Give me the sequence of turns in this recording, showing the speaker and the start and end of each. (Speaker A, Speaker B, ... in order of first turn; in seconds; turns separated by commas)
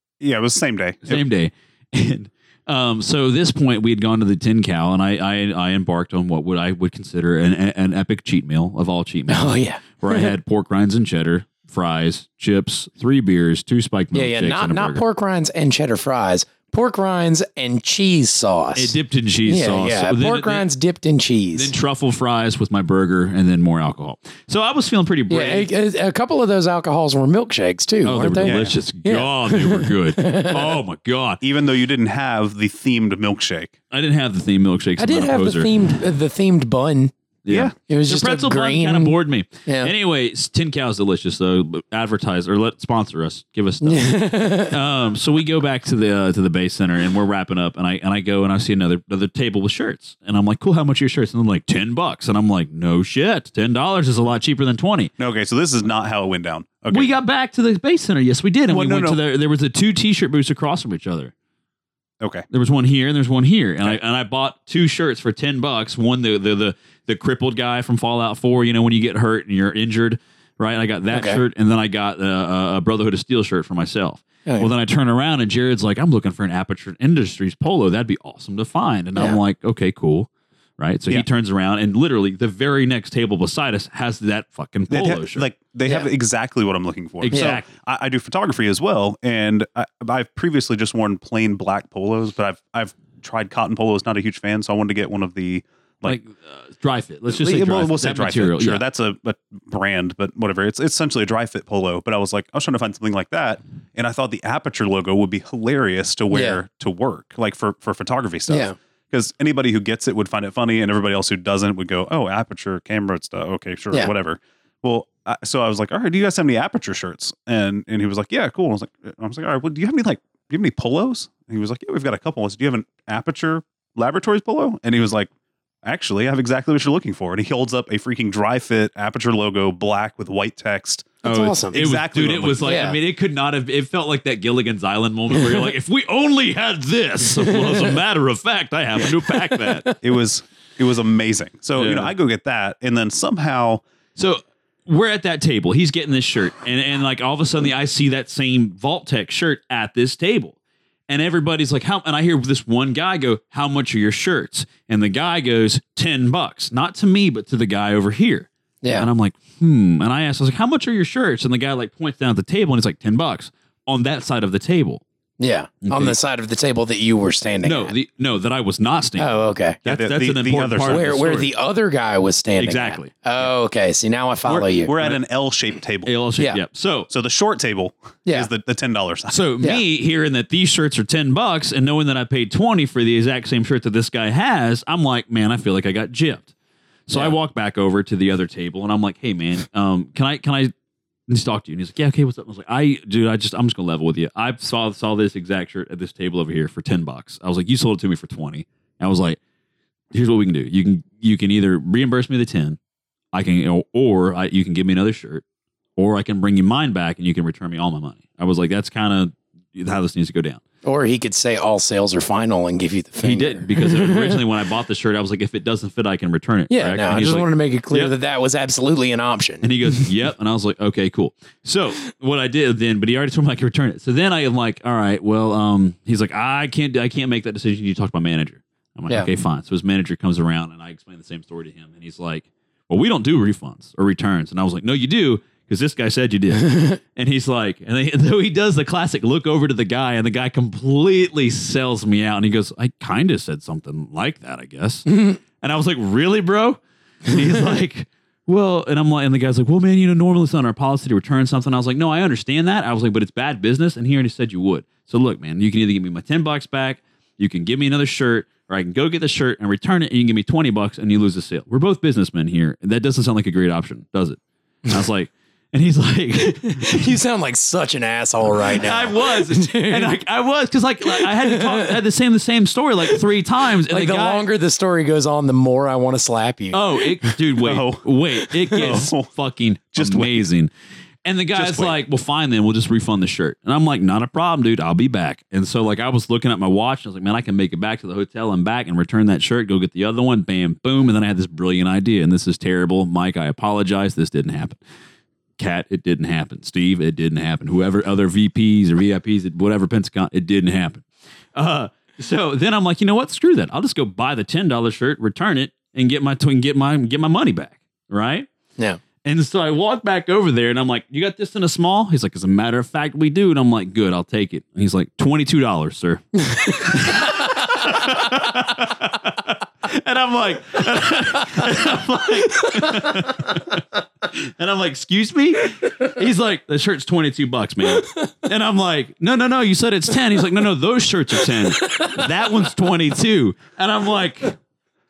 Speaker A: 0.2-1.2, Speaker B: 1.0-15.0, Speaker C: 9.3-10.3, Speaker C: 14.1-21.7, Speaker B: 18.8-20.6, Speaker B: 21.5-25.7, Speaker C: 25.3-30.8, Speaker B: 28.0-31.4, Speaker A: 28.4-28.7, Speaker A: 31.4-33.7, Speaker B: 33.9-35.7, Speaker C: 35.0-37.1, Speaker B: 37.4-55.1, Speaker C: 37.9-39.9, Speaker C: 43.8-44.8, Speaker A: 55.2-57.1, Speaker B: 56.9-61.3, Speaker A: 58.7-59.2, Speaker A: 62.2-62.5, Speaker B: 62.5-85.5, Speaker C: 71.1-71.4, Speaker C: 74.4-74.7, Speaker A: 84.9-96.2, Speaker B: 87.2-87.7, Speaker C: 87.3-87.6, Speaker B: 96.0-98.8, Speaker A: 97.3-125.3, Speaker C: 106.3-106.6, Speaker C: 108.5-108.8, Speaker A: 125.8-132.7, Speaker C: 131.2-131.8, Speaker B: 131.2-139.8, Speaker C: 132.6-133.0, Speaker C: 137.4-138.0, Speaker C: 139.1-139.9, Speaker A: 140.0-143.8, Speaker B: 141.8-142.1, Speaker B: 144.2-150.6, Speaker B: 151.1-165.0, Speaker C: 158.8-159.1, Speaker C: 165.4-167.9, Speaker B: 165.8-166.2, Speaker B: 167.6-171.5, Speaker C: 169.2-169.8, Speaker A: 169.8-171.4, Speaker C: 170.8-174.9, Speaker B: 172.6-173.5, Speaker B: 174.4-175.2, Speaker A: 174.8-176.1, Speaker B: 176.0-177.1, Speaker A: 177.1-179.3, Speaker B: 179.3-186.5, Speaker B: 187.1-190.7, Speaker B: 191.3-199.4, Speaker B: 200.1-202.8, Speaker B: 203.3-205.4, Speaker B: 206.0-210.6, Speaker C: 210.8-214.4, Speaker B: 213.2-218.1, Speaker C: 216.7-219.7, Speaker B: 219.6-267.1, Speaker C: 266.7-270.2, Speaker B: 268.5-274.4, Speaker C: 271.0-272.0, Speaker C: 273.9-277.4, Speaker B: 276.7-280.7, Speaker A: 277.6-278.1, Speaker C: 278.4-279.0, Speaker A: 278.7-279.3, Speaker A: 279.9-280.4, Speaker B: 281.2-294.8, Speaker A: 281.5-282.0, Speaker B: 295.6-308.5, Speaker B: 309.2-334.6, Speaker C: 316.5-317.2, Speaker C: 331.8-332.2